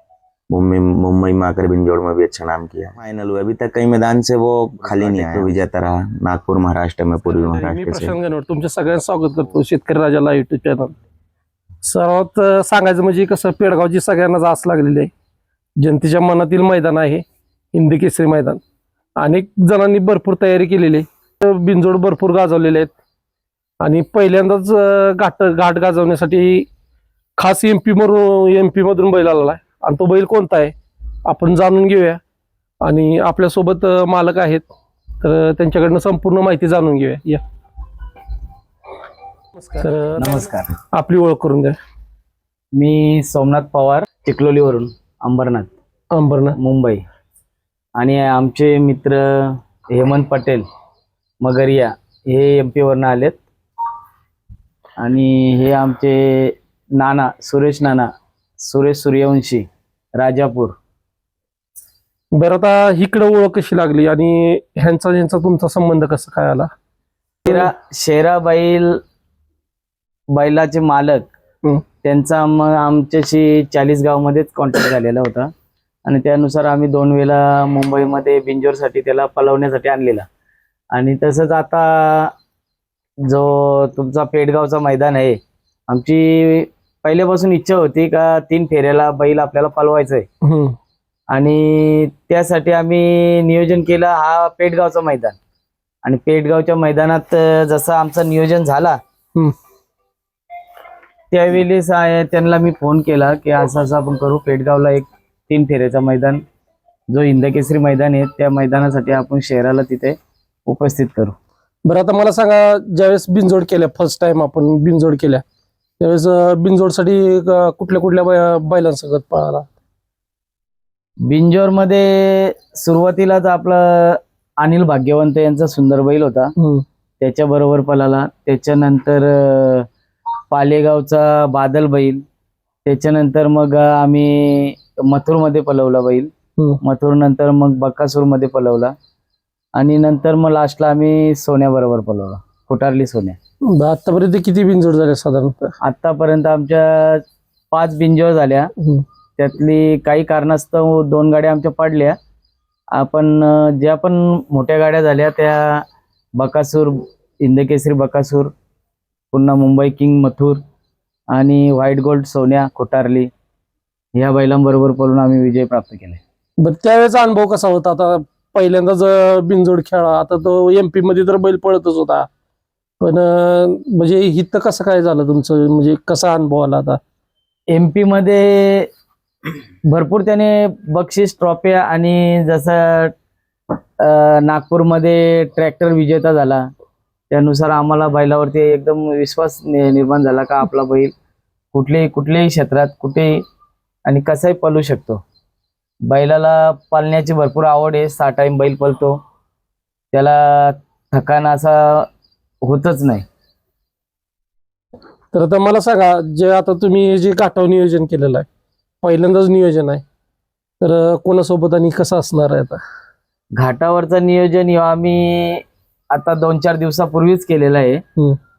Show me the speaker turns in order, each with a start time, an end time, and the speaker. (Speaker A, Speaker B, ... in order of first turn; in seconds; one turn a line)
Speaker A: 0.5-8.2
Speaker B: 7.2-10.9
Speaker B: 11.8-15.1
Speaker B: 15.8-18.6
Speaker B: 19.2-22.9
Speaker B: 23.8-26.7
Speaker B: 27.4-30.7
Speaker B: 31.3-32.2
Speaker B: 32.8-34.6
Speaker B: 35.2-37.4
Speaker B: 39.6-41.8
Speaker C: 40.2-40.7
Speaker C: 42.7-45.7
Speaker B: 46.1-46.5
Speaker C: 46.5-47.0
Speaker C: 48.0-50.7
Speaker C: 51.4-53.4
Speaker C: 55.0-60.8
Speaker B: 62.3-66.7
Speaker C: 67.5-69.0
Speaker C: 70.3-71.3
Speaker C: 72.0-75.5
Speaker C: 76.0-80.3
Speaker C: 80.9-82.3
Speaker C: 83.2-90.3
Speaker B: 90.4-90.8
Speaker C: 91.3-95.4
Speaker C: 96.0-99.0
Speaker C: 101.3-106.4
Speaker C: 107.1-111.3
Speaker B: 111.9-115.4
Speaker B: 116.0-119.7
Speaker C: 121.3-126.5
Speaker B: 126.6-126.8
Speaker C: 127.2-129.9
Speaker C: 130.5-132.2
Speaker C: 132.8-136.3
Speaker C: 136.8-138.9
Speaker C: 139.8-143.4
Speaker B: 143.7-145.7
Speaker C: 145.8-148.7
Speaker B: 148.8-149.0
Speaker C: 149.4-152.2
Speaker C: 152.9-155.8
Speaker C: 156.4-158.5
Speaker C: 159.3-160.6
Speaker C: 161.3-163.3
Speaker C: 164.1-166.2
Speaker B: 166.6-172.3
Speaker B: 173.0-177.0
Speaker C: 177.7-178.9
Speaker C: 179.9-183.1
Speaker C: 184.0-186.7
Speaker C: 187.3-191.1
Speaker C: 191.7-193.4
Speaker C: 194.1-195.2
Speaker C: 196.1-199.2
Speaker C: 200.1-202.1
Speaker C: 202.6-203.2
Speaker B: 205.3-208.5
Speaker B: 209.0-210.0
Speaker B: 210.8-212.8
Speaker C: 213.6-218.0